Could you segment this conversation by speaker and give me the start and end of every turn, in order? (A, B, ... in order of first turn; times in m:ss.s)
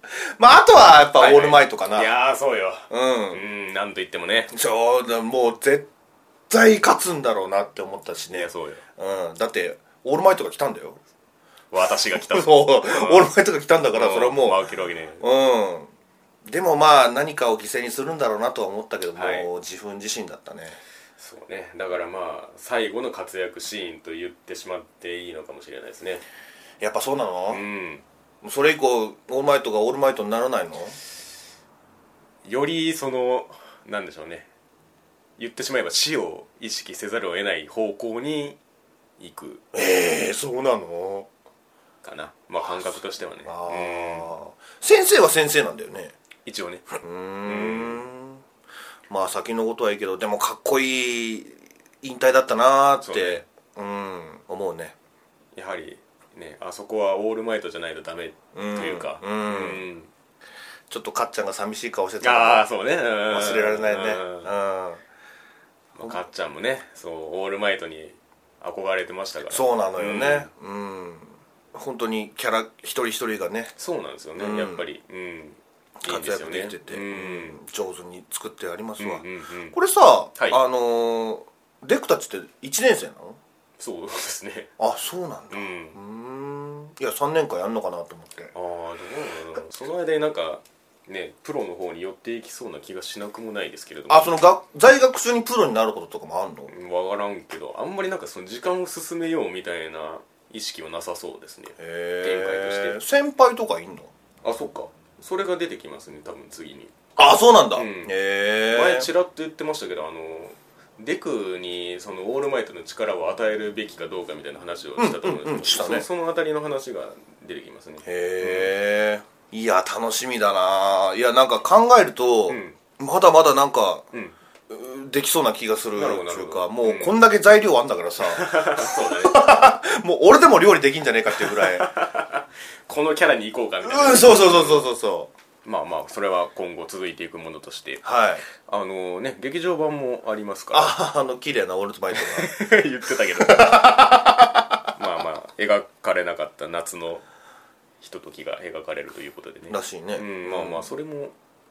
0:00.4-0:02.1 A
0:01.2-0:04.5 B
0:02.9-0:03.4 A
0:04.5-0:05.9 A
0:06.5-0:11.0 A
0:08.3-0:08.8 B
0:11.7-0:13.3 B
0:12.1-0:14.6 A
0:13.9-0:15.2 B
0:15.2-0:15.9 A
0:16.4-0:20.8 A
0:19.1-0:19.5 B
0:21.2-0:26.2 B
0:26.8-0:27.6 A
0:27.5-0:28.0 B
0:28.4-0:31.0 A
0:32.4-0:34.5 B
0:35.4-0:38.6 B
0:39.2-0:39.6 B
0:39.7-0:41.3 A
0:42.0-0:44.3 B
0:42.6-0:46.1 A
0:46.4-0:48.0 B
0:47.0-0:48.4 A
0:49.1-0:54.9 A
0:53.0-0:53.4 B
0:55.6-1:00.1 B
0:58.5-0:59.8 A
1:00.9-1:02.6 A
1:02.2-1:04.5 B
1:03.3-1:05.0 A
1:06.0-1:10.5 B
1:09.5-1:13.7 A
1:13.8-1:17.6 B
1:14.4-1:14.8 A
1:16.0-1:23.4 A
1:19.0-1:19.8 B
1:23.8-1:24.7 B
1:24.8-1:28.5 A
1:25.5-1:26.0 B
1:28.5-1:34.3 B
1:34.1-1:36.7 A
1:36.7-1:43.0 B
1:41.8-1:44.1 A
1:44.4-1:46.9 B
1:47.2-1:49.1 A
1:47.7-1:48.1 B
1:48.7-1:58.7 B
1:55.0-1:56.0 A
1:58.0-2:04.1 A
2:02.5-2:02.8 B
2:04.7-2:11.8 A
2:06.0-2:07.1 B
2:08.2-2:09.4 B
2:11.3-2:14.9 B
2:13.8-2:15.3 A
2:15.6-2:21.0 B
2:18.0-2:18.4 A
2:20.7-2:22.6 A
2:22.1-2:24.0 B
2:23.4-2:24.8 A
2:24.9-2:27.2 B
2:28.0-2:31.3 B
2:29.7-2:30.9 A